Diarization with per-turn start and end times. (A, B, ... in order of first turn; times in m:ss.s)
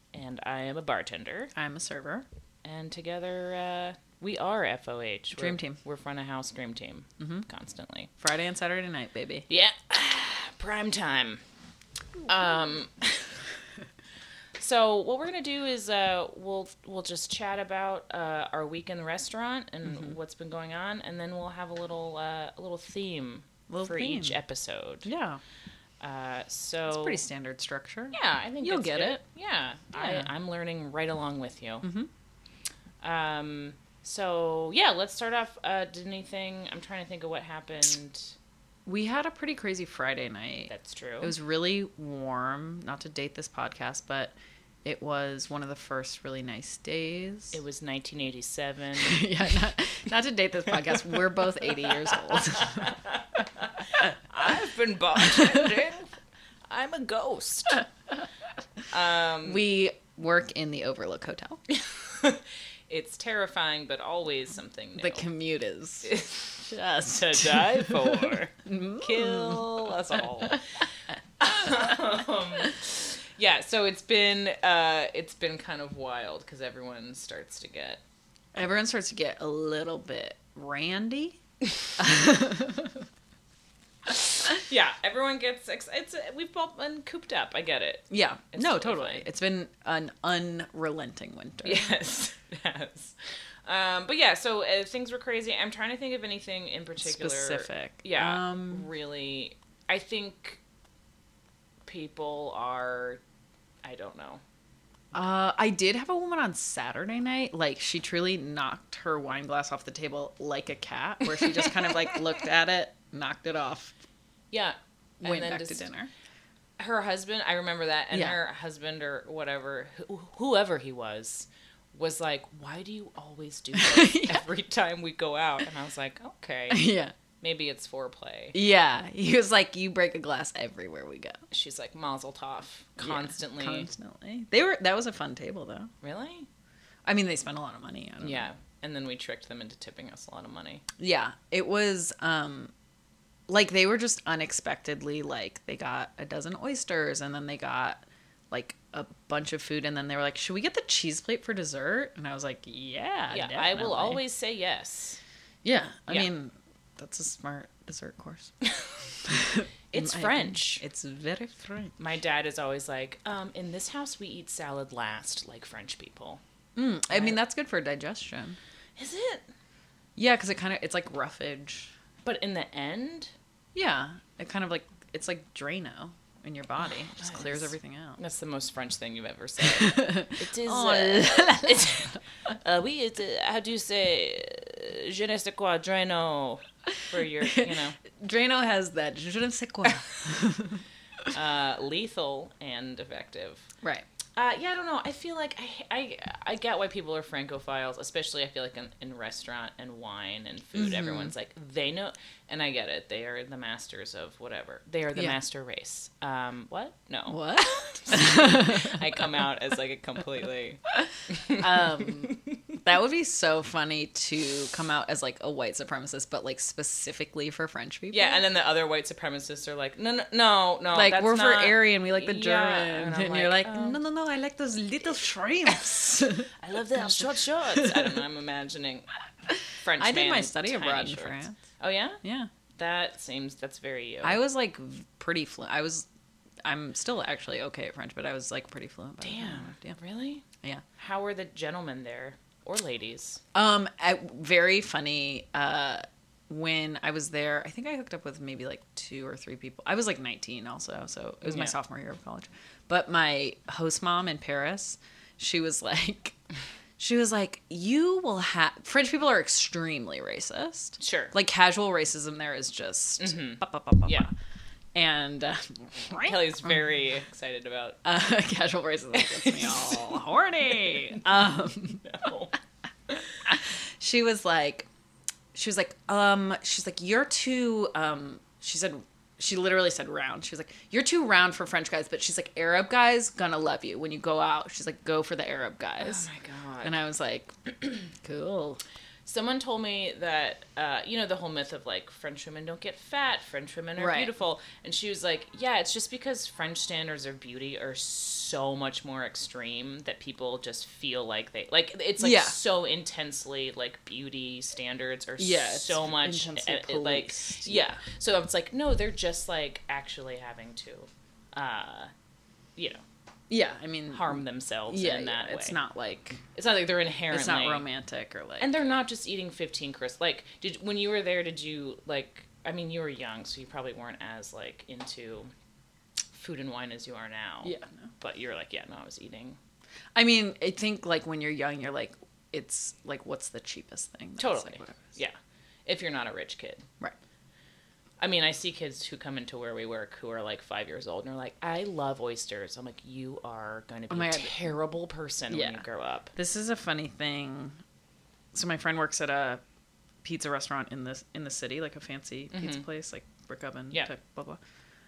0:00.1-0:01.5 A
0:01.5-0:02.2 B
0:02.6-0:08.1 A
0:05.3-0:05.8 B
0:07.2-0:07.4 B
0:08.2-0:09.4 B
0:09.5-0:11.4 A
0:12.2-0:13.1 A
0:14.6-0:25.1 A
0:23.7-0:24.4 B
0:25.0-0:25.4 B
0:26.0-0:27.2 A
0:26.9-0:29.2 B
0:28.1-0:31.9 A
0:29.9-0:30.3 B
0:31.8-0:32.1 B
0:33.0-0:38.4 A
0:38.8-0:47.6 B
0:40.7-0:41.3 A
0:47.5-0:49.2 A
0:49.0-0:53.0 B
0:52.1-0:56.1 A
0:56.7-0:57.8 A
0:58.9-0:59.6 A
0:59.4-1:01.6 B
1:01.7-1:05.2 A
1:05.0-1:09.7 B
1:06.0-1:06.5 A
1:07.1-1:10.6 A
1:11.4-1:18.0 A
1:18.5-1:21.4 B
1:22.0-1:23.0 B
1:24.5-1:29.2 A
1:28.1-1:31.9 B
1:31.6-1:40.6 A
1:37.0-1:38.9 B
1:41.8-1:43.2 A
1:43.8-1:44.4 A
1:45.1-1:53.9 B
1:54.5-1:55.9 A
1:55.2-1:56.1 B
1:56.8-2:08.6 A
2:03.8-2:04.5 B
2:06.7-2:07.1 B
2:08.5-2:11.4 B
2:11.5-2:13.9 A
2:13.0-2:15.9 B
2:16.0-2:16.5 A
2:17.0-2:18.5 B
2:18.2-2:20.8 A
2:21.0-2:22.7 B
2:23.5-2:34.2 B
2:33.3-2:35.2 A
2:35.6-2:38.5 B
2:39.2-2:41.9 B
2:39.9-2:40.8 A
2:42.0-2:46.4 A
2:46.8-2:48.6 B
2:47.1-2:47.4 A
2:49.0-2:49.5 A
2:50.2-2:51.9 B
2:52.2-2:53.3 A
2:53.7-2:58.2 B
2:57.2-3:08.0 A
2:59.6-3:02.1 B
3:07.4-3:10.8 B
3:11.3-3:13.7 A
3:14.4-3:32.6 A
3:20.8-3:21.3 B
3:27.3-3:29.2 B
3:31.0-3:38.4 B
3:38.1-3:44.0 A
3:40.9-3:48.1 B
3:46.6-3:49.1 A
3:49.5-3:51.6 B
3:49.8-3:52.2 A
3:52.2-3:52.5 B
3:52.8-3:54.4 A
3:54.2-3:56.1 B
3:56.6-4:00.0 B
3:59.2-4:00.4 A
4:01.0-4:03.4 A
4:03.5-4:16.4 B
4:11.4-4:11.7 A
4:17.0-4:24.3 B
4:21.0-4:21.3 A
4:23.2-4:24.3 A
4:24.9-4:26.8 B
4:26.2-4:28.0 A
4:28.0-4:32.0 B
4:29.1-4:30.2 A
4:32.0-4:32.6 A
4:33.4-4:34.9 B
4:35.5-4:46.3 B
4:46.0-4:47.0 A
4:46.8-4:47.5 B
4:48.1-4:48.8 B
4:49.2-5:12.1 A
4:54.0-4:54.3 B
5:02.2-5:02.6 B
5:05.4-5:08.0 B
5:12.8-5:13.0 A
5:13.5-5:16.4 B
5:14.1-5:15.8 A
5:16.5-5:17.8 A
5:17.3-5:18.7 B
5:18.6-5:25.5 A
5:26.3-5:29.6 A
5:27.6-5:28.1 B
5:30.1-5:35.1 B
5:34.4-5:36.8 A
5:38.2-5:46.3 A
5:44.1-5:44.5 B
5:45.5-5:45.8 B
5:46.3-5:47.8 B
5:48.5-5:49.6 B
5:50.2-5:54.6 B
5:52.5-5:52.8 A